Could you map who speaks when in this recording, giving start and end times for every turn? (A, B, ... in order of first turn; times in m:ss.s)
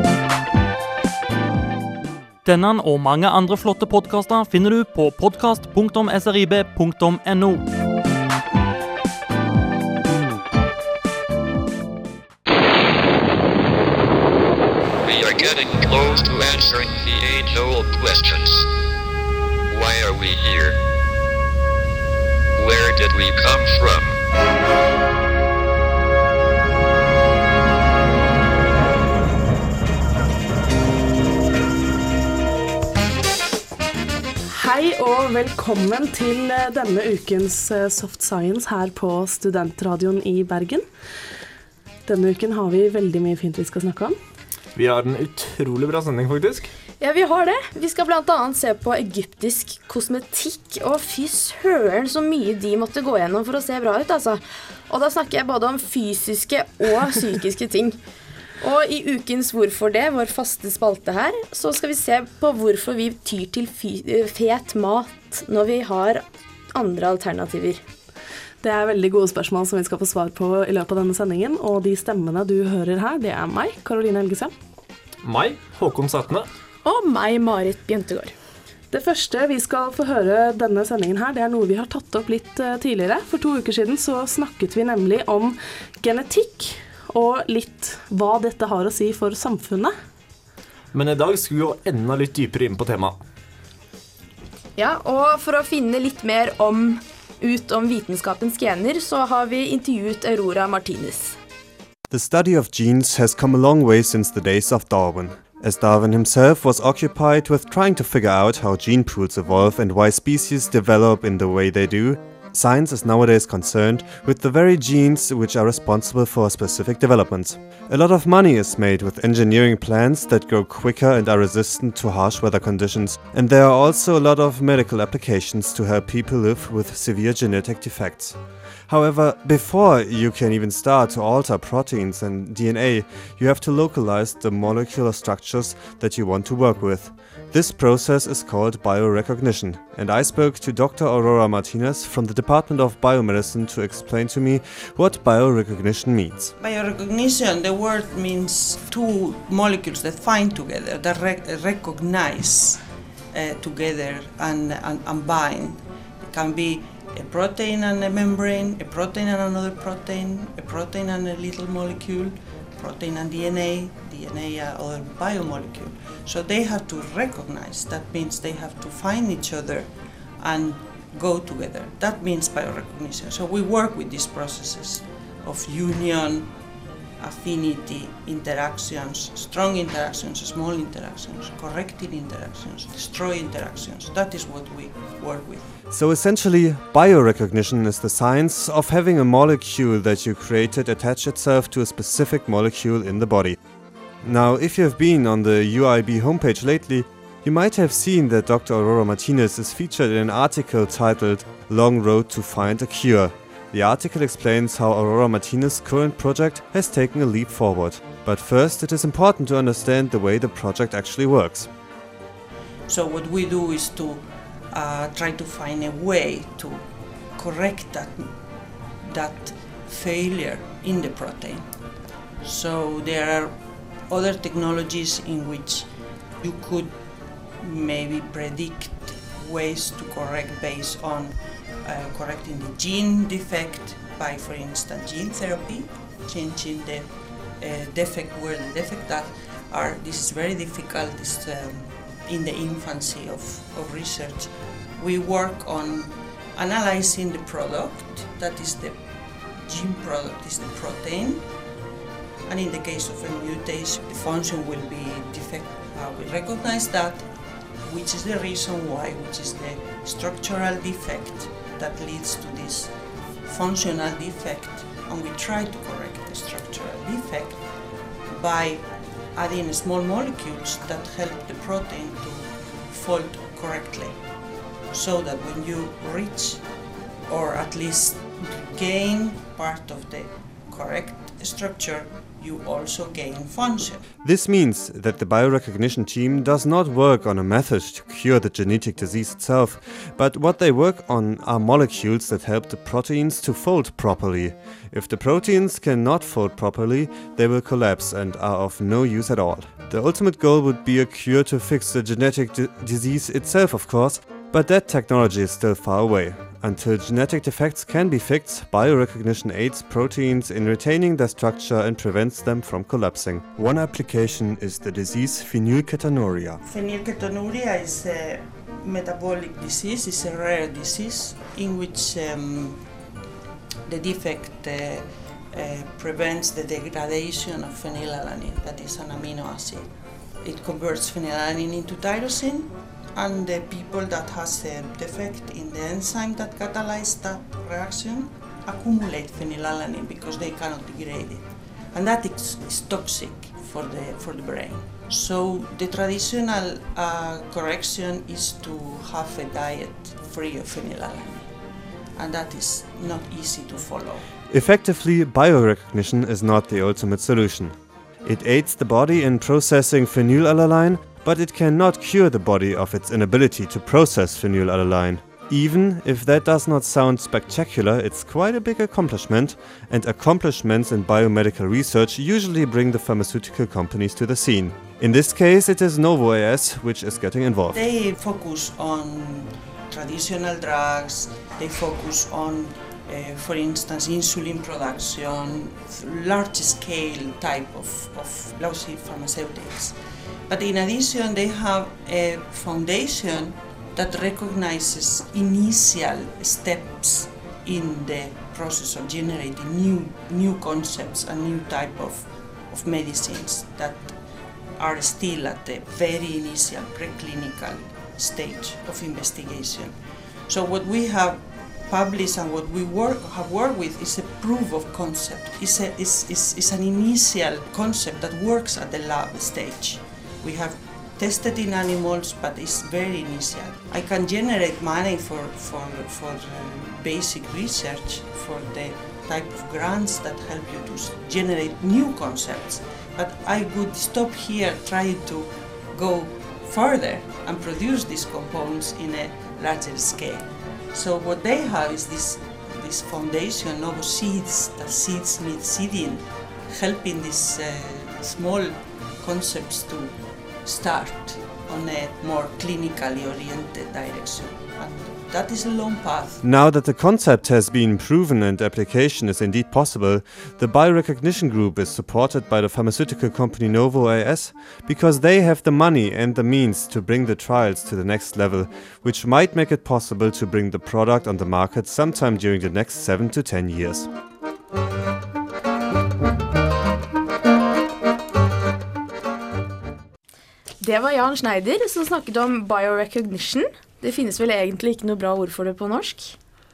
0:02.4-0:07.6 A
0:15.0-0:18.6 B
0:19.7-0:20.7 B
0:22.6-0:24.1 B
0:34.5-0:40.8 C
0:42.1-0:44.1 C
0:44.7-0:46.7 D
0:47.0-0:54.4 E
0:54.9-0:57.9 E
0:58.6-1:06.2 E
1:06.7-1:07.8 E
1:08.6-1:14.5 C
1:15.2-1:16.5 D
1:16.9-1:18.3 E
1:18.9-1:29.9 C
1:30.9-1:33.2 D
1:34.9-1:41.3 E
1:42.1-2:08.4 F
2:08.9-2:26.5 F
2:26.6-2:32.8 G
2:33.3-2:56.5 G
2:57.2-3:05.6 G
3:05.9-3:13.6 F
3:14.2-3:31.7 F
3:32.9-3:36.8 G
3:37.4-3:38.3 G
3:39.0-3:41.6 G
3:42.4-3:43.5 G
3:44.1-3:45.9 G
3:46.4-3:46.9 G
3:47.6-3:57.1 G
3:57.6-4:09.0 G
4:09.6-4:11.4 G
4:12.4-4:17.2 G
4:17.8-4:22.9 G
4:23.4-4:27.6 G
4:28.3-4:34.2 G
4:34.9-4:36.6 G
4:37.3-4:44.0 G
4:44.2-5:16.6 F
5:16.6-5:22.8 G
5:23.9-5:29.9 G
5:30.4-5:51.5 G
5:52.2-5:54.2 G
5:54.5-5:57.7 F
5:58.2-6:17.8 F
6:17.7-6:30.0 G
6:30.5-6:44.1 G
6:44.8-6:49.9 G
6:50.5-7:36.4 G
7:36.4-7:54.1 F
8:00.8-8:06.3 E